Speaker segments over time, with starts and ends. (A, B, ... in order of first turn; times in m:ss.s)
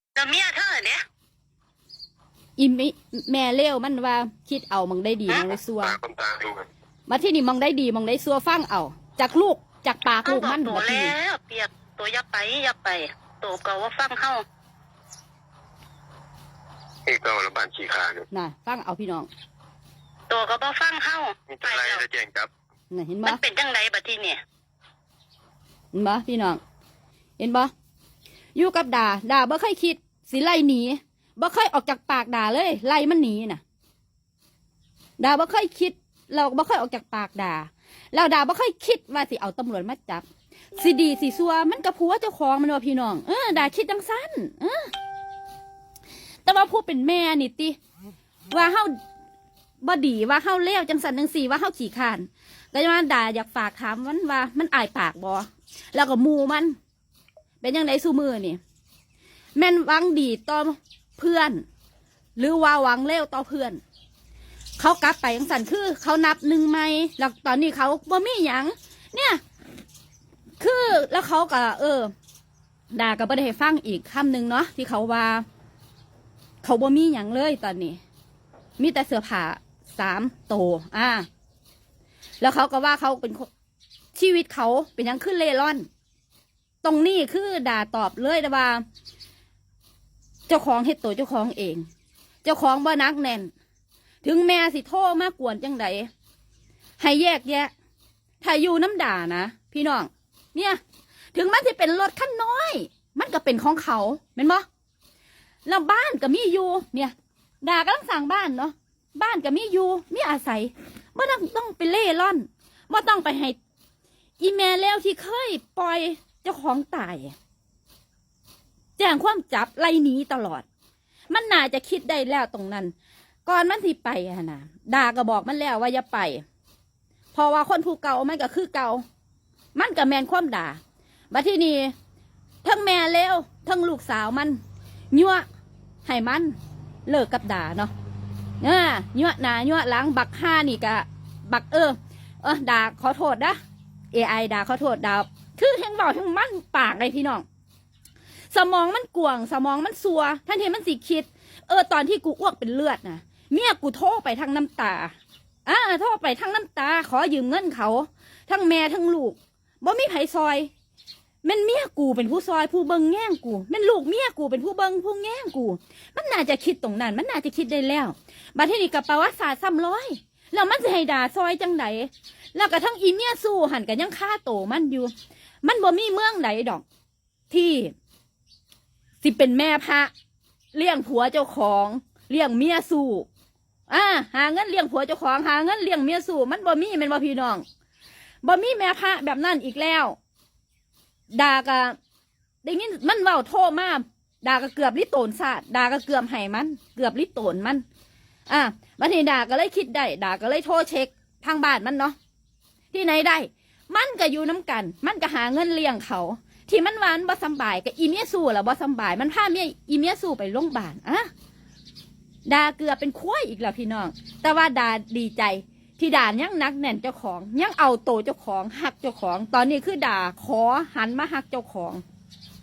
0:00.2-0:01.0 A
0:02.6-0:06.0 B
0:05.7-0:06.7 C
0:07.1-0:11.1 B
0:10.2-0:14.4 A
0:17.1-0:18.2 C
0:18.3-0:19.3 B
0:20.3-0:22.0 A
0:21.5-0:22.5 C
0:22.9-0:23.4 B
0:23.2-0:24.4 A
0:25.9-0:26.6 B
0:27.4-0:27.7 B
0:28.6-0:33.6 B
0:35.2-0:44.9 B
0:46.4-0:47.8 B
0:48.5-0:49.0 B
0:49.8-0:56.8 B
0:57.6-0:58.6 B
0:59.6-1:01.6 B
1:02.4-1:03.8 B
1:04.8-1:09.4 B
1:10.6-1:12.1 B
1:12.9-1:15.4 B
1:16.6-1:18.0 B
1:18.8-1:21.3 B
1:22.4-1:23.5 B
1:24.1-1:25.9 B
1:26.8-1:28.8 B
1:30.5-1:31.9 B
1:32.4-1:33.5 B
1:34.2-1:36.1 B
1:37.0-1:37.7 B
1:38.4-1:40.8 B
1:41.4-1:44.7 B
1:45.6-1:53.6 B
1:54.4-1:57.4 B
1:59.0-2:00.6 B
2:01.3-2:02.9 B
2:03.4-2:06.4 B
2:07.3-2:09.0 B
2:09.8-2:10.8 B
2:11.3-2:11.9 B
2:12.6-2:14.6 B
2:15.1-2:15.4 B
2:16.0-2:17.9 B
2:18.6-2:23.6 B
2:24.1-2:27.4 B
2:28.5-2:35.2 B
2:35.7-2:40.7 B
2:41.4-2:55.1 B
2:55.6-2:56.8 B
2:57.5-2:57.9 B
2:59.2-3:00.1 B
3:00.7-3:03.3 B
3:03.9-3:07.6 B
3:08.4-3:10.2 B
3:11.3-3:12.0 B
3:12.6-3:17.8 B
3:18.5-3:22.2 B
3:22.9-3:31.3 B
3:32.5-3:42.0 B